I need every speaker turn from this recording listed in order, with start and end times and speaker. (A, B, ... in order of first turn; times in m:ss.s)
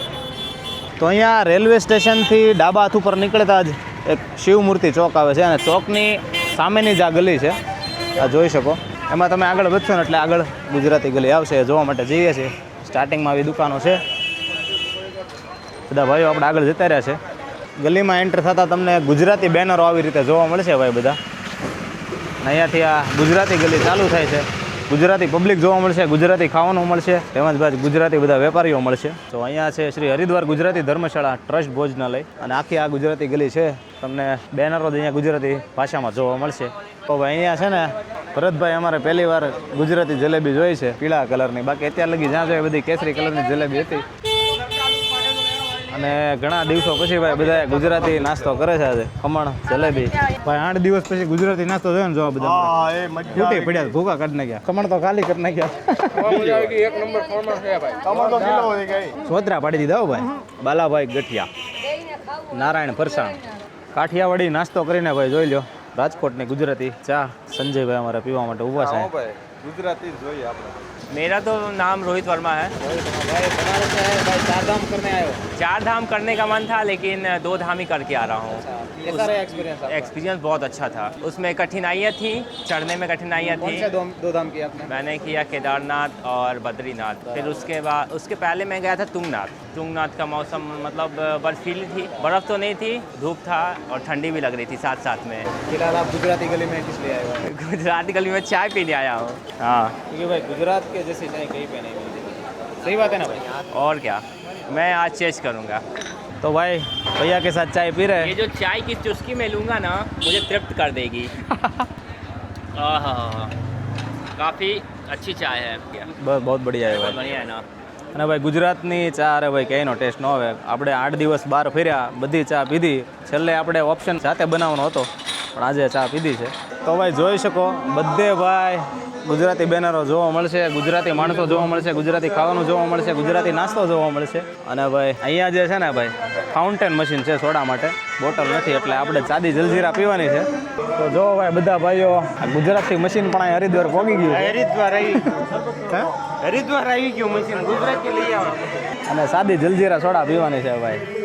0:01.0-0:07.6 A
0:08.2-0:14.0 A
0:15.9-0:17.2 A
0:17.8-0:21.2 A
0:22.4-0:44.0 A
0:45.9-0:56.9 A
0:52.5-0:53.9 B
0:57.6-0:59.2 B
0:58.2-1:01.5 A
1:02.4-1:03.4 A
1:03.9-1:09.1 A
1:08.8-1:10.8 B
1:11.1-1:12.7 C
1:12.8-1:15.4 A
1:15.5-1:23.9 C
1:18.6-1:20.1 A
1:23.6-1:24.9 A
1:24.9-1:35.5 C
1:27.3-1:27.7 A
1:35.6-1:37.4 A
1:37.4-1:39.9 C
1:39.9-1:43.4 A
1:43.7-1:45.8 C
1:46.4-1:48.3 A
1:48.2-1:51.3 C
1:51.5-1:51.8 A
1:52.7-1:53.5 C
1:54.4-1:56.1 C
1:56.2-1:57.2 A
1:56.8-1:57.6 C
1:58.1-2:24.6 A
2:24.4-2:28.8 C
2:29.0-2:31.0 A